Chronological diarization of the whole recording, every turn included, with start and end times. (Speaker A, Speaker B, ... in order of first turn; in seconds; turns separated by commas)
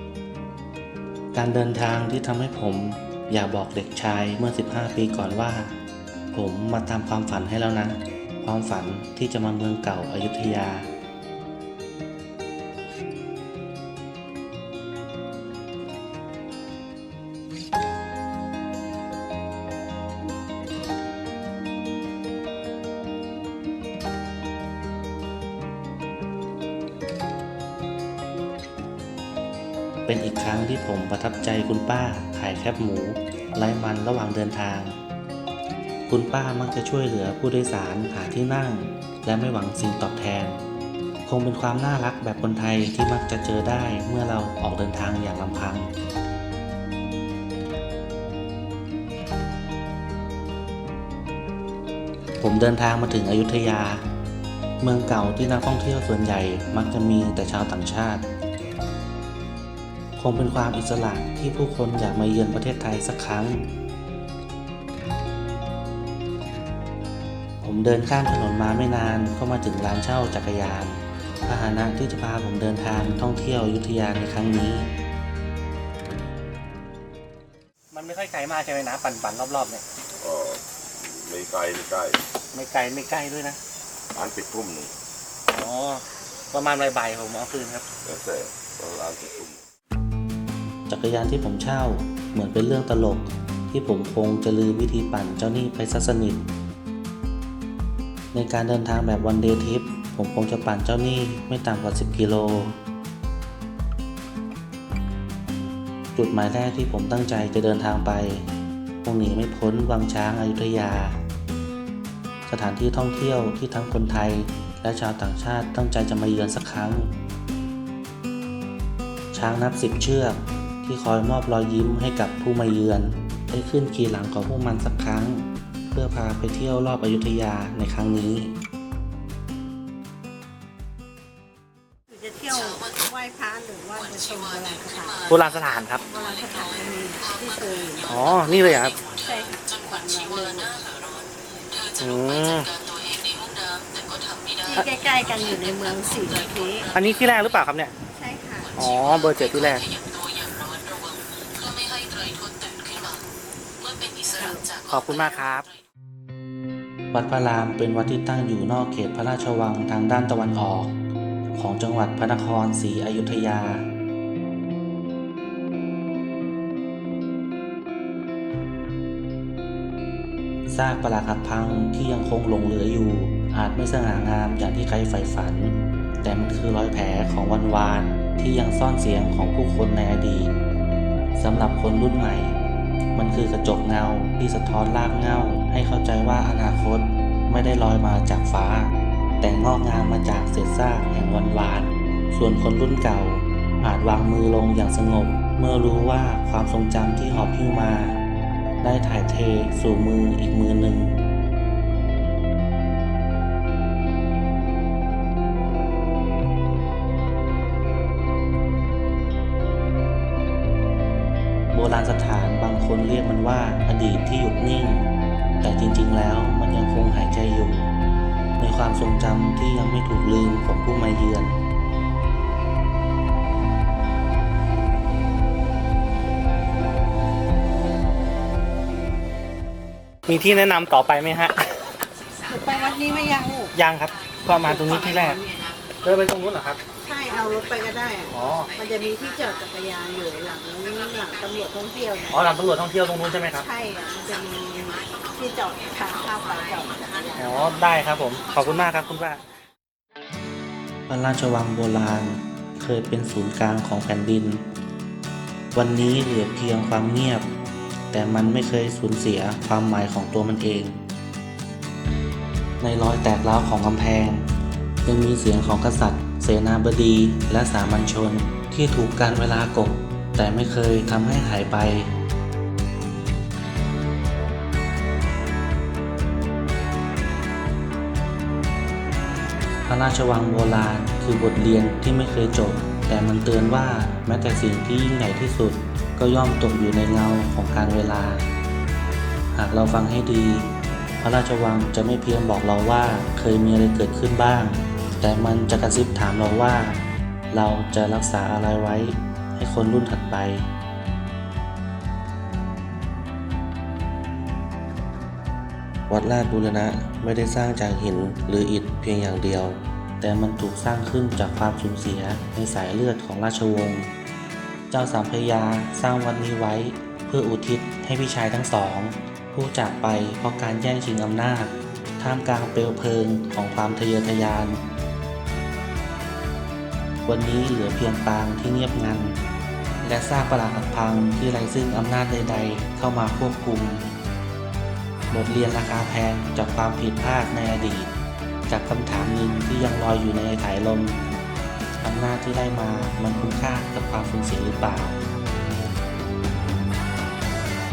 Speaker A: 1.3-5.8, Speaker A: 6.3-10.9, Speaker A: 30.1-35.0, Speaker A: 36.1-40.6, Speaker A: 41.2-45.9, Speaker A: 52.4-54.0, Speaker A: 54.8-58.2, Speaker A: 60.2-63.7, Speaker A: 67.6-74.9, Speaker B: 77.9-79.8, Speaker C: 80.2-82.2, Speaker B: 82.5-83.6, Speaker C: 84.1-84.9, Speaker B: 85.5-87.8, Speaker C: 88.0-89.7, Speaker A: 90.9-96.5, Speaker A: 98.3-102.8, Speaker A: 106.2-108.5, Speaker A: 109.0-111.2, Speaker A: 112.5-117.1, Speaker A: 119.3-128.6, Speaker D: 132.1-135.3, Speaker B: 135.3-136.0, Speaker D: 136.0-138.1, Speaker B: 138.1-139.1, Speaker D: 139.1-140.9, Speaker B: 142.0-142.7, Speaker D: 144.7-146.9, Speaker B: 146.9-147.9, Speaker D: 148.1-148.8, Speaker B: 148.7-149.9, Speaker D: 154.3-154.7, Speaker B: 154.7-155.7, Speaker A: 157.1-161.0, Speaker A: 161.5-163.9, Speaker A: 170.7-180.6, Speaker A: 181.3-182.5, Speaker A: 183.2-198.2, Speaker A: 198.8-201.2, Speaker A: 211.7-215.1, Speaker A: 215.6-217.9, Speaker A: 218.6-221.6, Speaker B: 230.3-231.7, Speaker D: 232.5-233.7, Speaker B: 233.8-235.4, Speaker B: 236.0-236.8, Speaker D: 237.0-242.5, Speaker B: 238.3-238.7, Speaker B: 242.3-243.7, Speaker D: 243.6-247.6, Speaker B: 247.4-249.4, Speaker A: 251.1-254.7, Speaker A: 255.7-257.5, Speaker A: 258.1-261.0, Speaker A: 262.8-264.4, Speaker A: 265.1-272.1, Speaker A: 279.9-288.4, Speaker A: 289.5-300.7, Speaker A: 306.1-314.1, Speaker A: 314.9-324.8, Speaker A: 327.3-329.4, Speaker A: 330.0-334.1, Speaker A: 335.3-338.1, Speaker A: 338.7-341.2, Speaker A: 342.0-345.2